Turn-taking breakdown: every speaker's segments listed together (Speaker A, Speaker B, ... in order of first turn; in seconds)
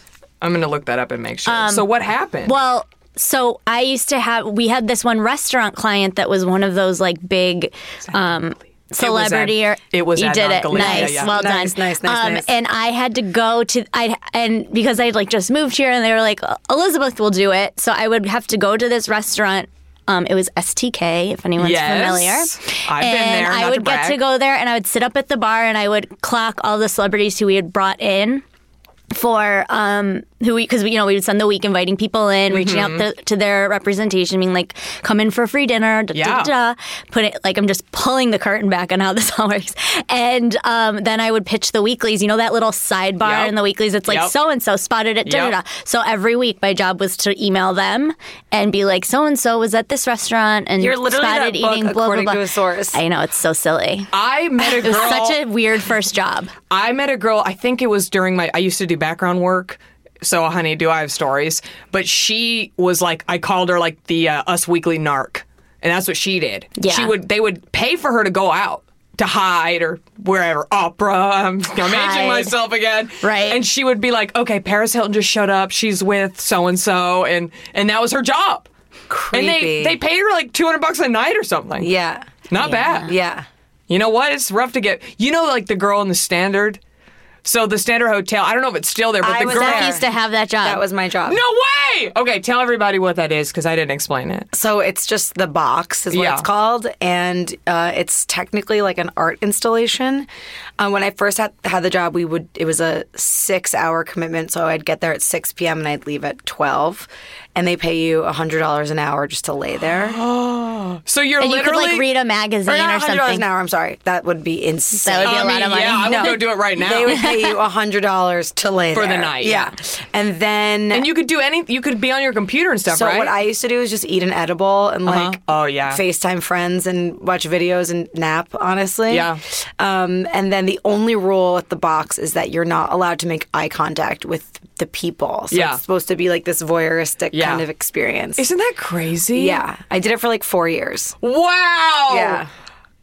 Speaker A: 0.4-2.5, 9.0-11.3, 21.6-24.2, 32.5-33.0, 36.1-36.5, 43.2-43.5, 44.1-44.3, 45.2-45.5, 54.1-55.4, 56.7-78.7, 79.3-81.9, 82.5-83.1, 83.9-86.8, 87.4-90.0, 91.3-94.5, 96.1-96.5, 109.9-112.0, 115.2-117.2, 118.9-119.7, 120.9-123.3, 125.0-126.0, 129.1-129.4, 135.5-135.8, 137.3-137.6, 138.4-139.6, 141.2-142.4
Speaker B: 1.4-1.9, 2.5-28.4, 29.1-56.5, 66.8-67.1, 71.8-72.5, 73.2-73.6, 82.6-83.1, 89.4-90.8, 111.4-113.4, 115.0-116.4, 117.1-117.5
Speaker C: 10.7-12.5, 50.8-53.0, 79.1-80.0, 81.8-82.4, 83.0-83.5, 89.2-90.1, 90.6-91.4, 94.5-100.3, 100.8-110.2, 112.7-121.1, 122.9-138.4, 139.3-141.1, 142.1-142.5